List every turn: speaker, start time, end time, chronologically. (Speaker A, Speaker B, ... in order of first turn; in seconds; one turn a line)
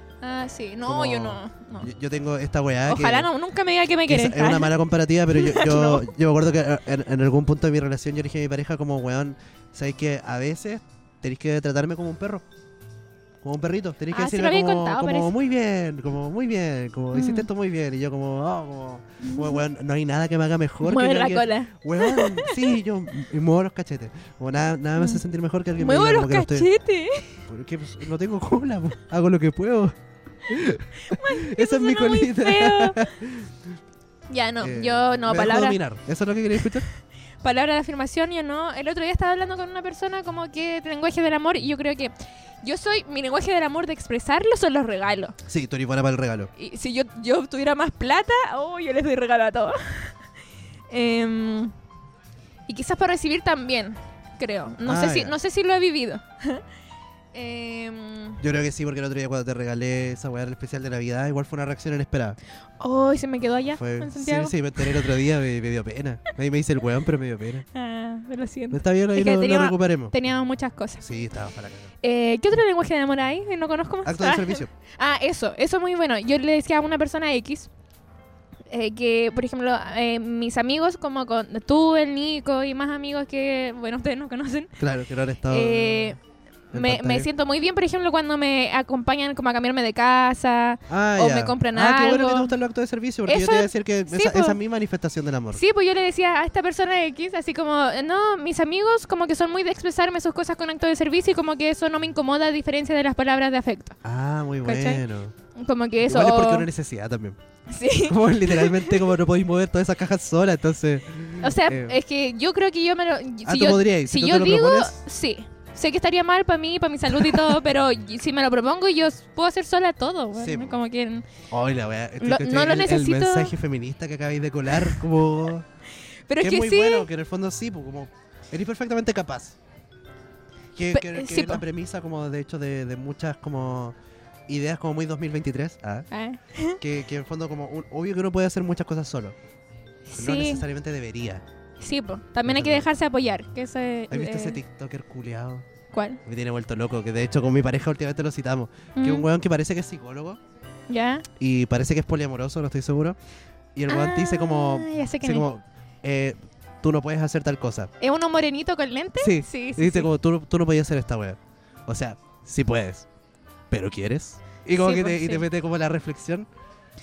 Speaker A: 0.2-1.9
Speaker B: 0.8-3.3
Speaker A: 2.9-4.7
Speaker B: 4.1-12.4
Speaker A: 5.3-6.1
Speaker B: 13.4-26.7
Speaker A: 14.1-15.3
Speaker A: 17.1-17.5
Speaker A: 19.2-19.6
Speaker A: 20.8-22.8
Speaker A: 25.0-25.2
Speaker A: 25.8-27.4
Speaker B: 27.4-29.9
Speaker B: 30.5-33.5
Speaker A: 31.1-33.1
Speaker A: 34.3-35.8
Speaker B: 34.6-36.9
Speaker A: 37.4-45.4
Speaker B: 45.5-46.5
Speaker A: 46.5-50.1
Speaker A: 50.9-51.7
Speaker A: 52.7-56.6
Speaker B: 54.8-55.4
Speaker A: 57.3-58.4
Speaker B: 58.4-62.4
Speaker A: 62.8-65.0
Speaker B: 63.7-67.7
Speaker A: 67.7-71.0
Speaker B: 68.7-70.1
Speaker B: 71.0-71.9
Speaker A: 72.0-77.7
Speaker B: 74.0-74.7
Speaker A: 78.7-84.7
Speaker B: 84.8-86.2
Speaker A: 85.5-86.2
Speaker B: 86.7-87.3
Speaker A: 86.7-92.5
Speaker B: 90.9-95.6
Speaker A: 93.2-94.6
Speaker A: 95.5-104.0
Speaker B: 104.0-105.3
Speaker A: 104.6-105.0
Speaker A: 105.5-106.7
Speaker B: 106.0-107.4
Speaker A: 107.7-109.1
Speaker B: 108.0-112.0
Speaker A: 111.4-121.3
Speaker B: 113.4-115.0
Speaker B: 117.2-117.5
Speaker B: 120.3-120.8
Speaker B: 121.5-125.7
Speaker A: 122.2-123.5
Speaker A: 124.7-125.0
Speaker A: 126.3-127.1
Speaker B: 126.4-129.6
Speaker B: 130.8-133.9
Speaker A: 130.9-131.6
Speaker B: 134.5-136.1
Speaker A: 136.1-136.8
Speaker B: 136.8-139.3
Speaker A: 140.1-140.6
Speaker B: 140.2-141.4
Speaker A: 141.8-144.6
Speaker B: 142.4-142.8
Speaker B: 144.1-145.7
Speaker A: 145.9-146.2
Speaker B: 146.2-150.4
Speaker A: 149.0-149.3
Speaker A: 150.9-151.2
Speaker B: 151.4-153.2
Speaker B: 153.7-157.9
Speaker A: 153.9-155.4
Speaker A: 158.0-160.1
Speaker B: 159.2-163.1
Speaker B: 163.7-166.5
Speaker A: 164.8-165.5